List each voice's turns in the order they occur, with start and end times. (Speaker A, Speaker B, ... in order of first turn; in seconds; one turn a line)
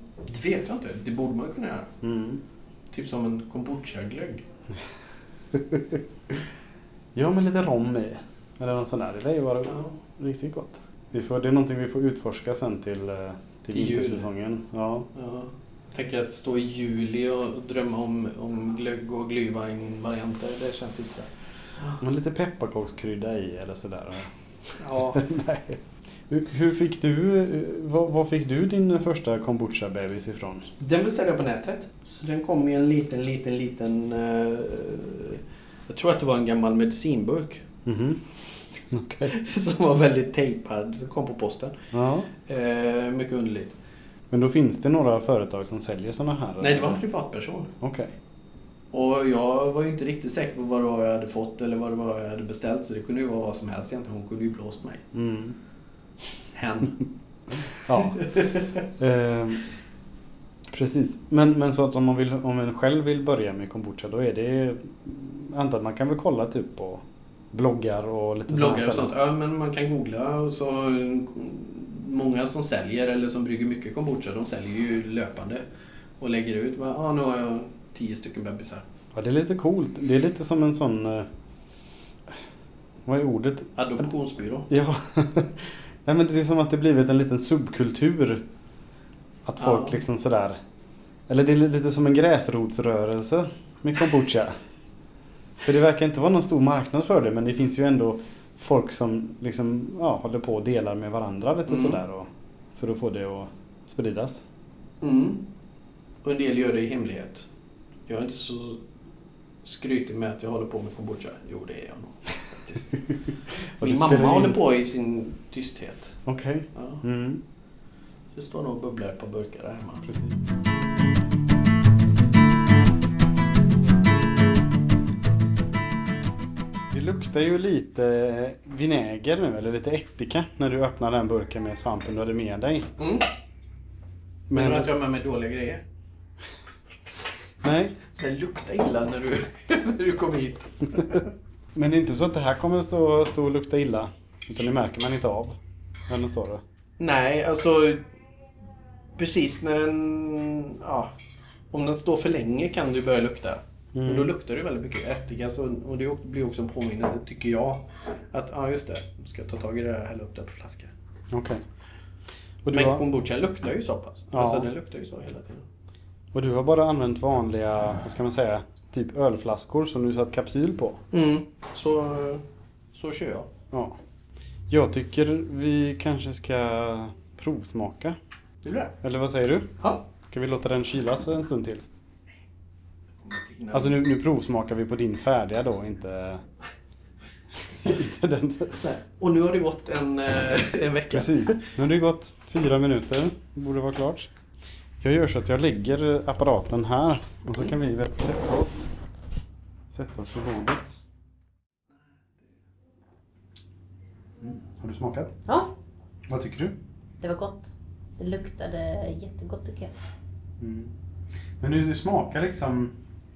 Speaker A: 0.3-1.9
Speaker B: 2.0-2.4
Speaker A: 2.9-4.4
Speaker B: 5.5-6.3
Speaker B: 7.1-15.1
Speaker A: 9.7-9.9
Speaker A: 13.7-14.3
Speaker A: 15.1-22.0
Speaker B: 22.0-30.7
Speaker A: 24.8-25.2
Speaker A: 30.8-37.6
Speaker B: 37.9-38.2
Speaker B: 38.9-39.3
Speaker A: 39.2-41.8
Speaker B: 41.9-42.3
Speaker A: 42.5-43.8
Speaker B: 44.3-47.0
Speaker A: 46.6-47.7
Speaker B: 47.8-48.1
Speaker A: 48.9-55.0
Speaker B: 55.1-55.5
Speaker A: 56.5-57.0
Speaker B: 57.8-59.6
Speaker A: 58.1-58.8
Speaker B: 60.7-69.1
Speaker A: 68.5-75.6
Speaker A: 76.2-78.8
Speaker B: 79.1-81.3
Speaker B: 83.0-83.8
Speaker A: 83.8-84.7
Speaker B: 84.7-88.5
Speaker B: 89.4-90.6
Speaker A: 89.6-90.0
Speaker B: 91.3-94.5
Speaker B: 95.6-104.4
Speaker A: 101.7-102.0
Speaker A: 105.0-105.5
Speaker A: 106.2-107.5
Speaker A: 108.1-108.8
Speaker A: 109.6-112.9
Speaker B: 113.8-114.6
Speaker A: 113.8-116.2
Speaker B: 116.2-117.4
Speaker A: 116.7-117.0
Speaker A: 118.3-120.1
Speaker B: 120.0-120.5
Speaker B: 126.9-132.9
Speaker A: 133.0-133.3
Speaker B: 134.5-134.9
Speaker A: 134.5-135.8
Speaker B: 137.6-138.0
Speaker A: 138.1-141.2
Speaker B: 141.7-145.6
Speaker B: 146.1-146.6
Speaker A: 147.0-148.0
Speaker A: 149.2-151.1
Speaker A: 151.7-160.9
Speaker B: 153.9-154.3
Speaker B: 161.3-161.6
Speaker B: 162.6-163.0
Speaker A: 162.7-165.6
Speaker B: 164.3-164.7
Speaker B: 166.3-171.0
Speaker A: 171.1-173.5
Speaker B: 173.7-174.0
Speaker B: 174.7-178.2
Speaker A: 178.6-178.9
Speaker B: 179.0-181.8
Speaker A: 183.2-184.0
Speaker B: 183.7-186.4
Speaker B: 187.6-188.8
Speaker A: 188.7-191.8
Speaker B: 191.1-194.3
Speaker B: 195.0-198.8
Speaker B: 199.9-201.0
Speaker B: 204.4-205.3
Speaker B: 206.3-206.8
Speaker C: 207.2-209.9
Speaker B: 210.6-210.9
Speaker B: 211.6-213.0